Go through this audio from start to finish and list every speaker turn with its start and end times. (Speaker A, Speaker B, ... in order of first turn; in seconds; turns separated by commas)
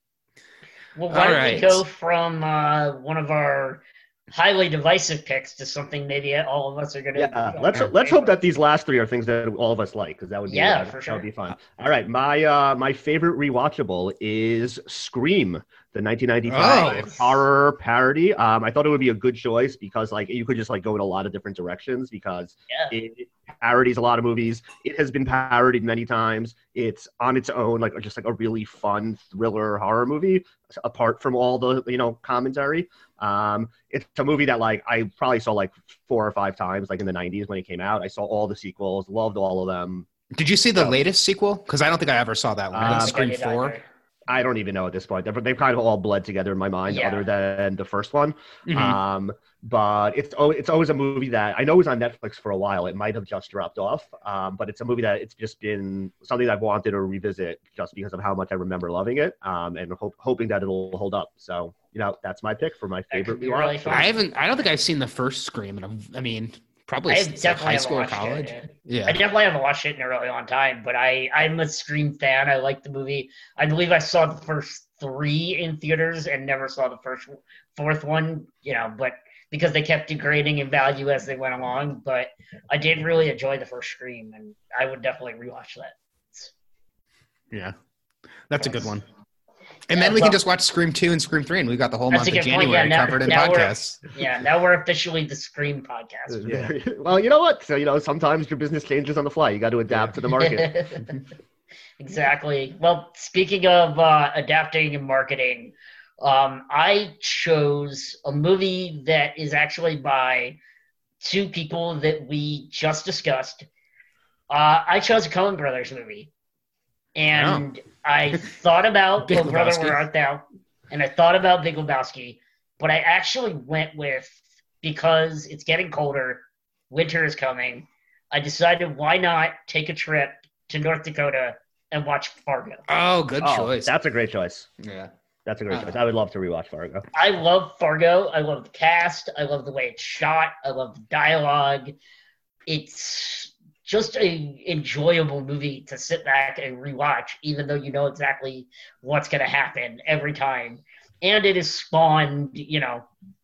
Speaker A: 0.9-8.4, Speaker B: 1.1-1.8, Speaker C: 7.1-40.1, Speaker A: 10.5-11.2, Speaker B: 16.5-17.1, Speaker A: 16.6-17.4, Speaker B: 40.3-43.8, Speaker C: 42.7-43.1, Speaker A: 42.8-43.8, Speaker C: 44.3-64.1, Speaker A: 46.9-47.2, Speaker B: 48.7-49.0, Speaker A: 63.1-64.1, Speaker B: 63.9-69.2, Speaker A: 67.1-86.5, Speaker B: 88.5-89.0, Speaker A: 88.6-88.8, Speaker B: 89.9-94.1, Speaker A: 89.9-90.4, Speaker A: 92.1-96.4, Speaker C: 96.3-100.8, Speaker B: 96.4-96.7, Speaker B: 99.9-100.2, Speaker A: 100.3-101.1, Speaker A: 102.0-110.6, Speaker A: 111.2-113.7, Speaker A: 114.5-116.3, Speaker A: 117.2-132.8, Speaker B: 117.3-117.6, Speaker B: 119.2-120.0, Speaker B: 132.9-133.9, Speaker C: 133.4-134.7, Speaker B: 134.8-135.1, Speaker C: 135.4-137.1, Speaker B: 135.7-136.0, Speaker A: 137.1-141.9, Speaker A: 142.7-153.1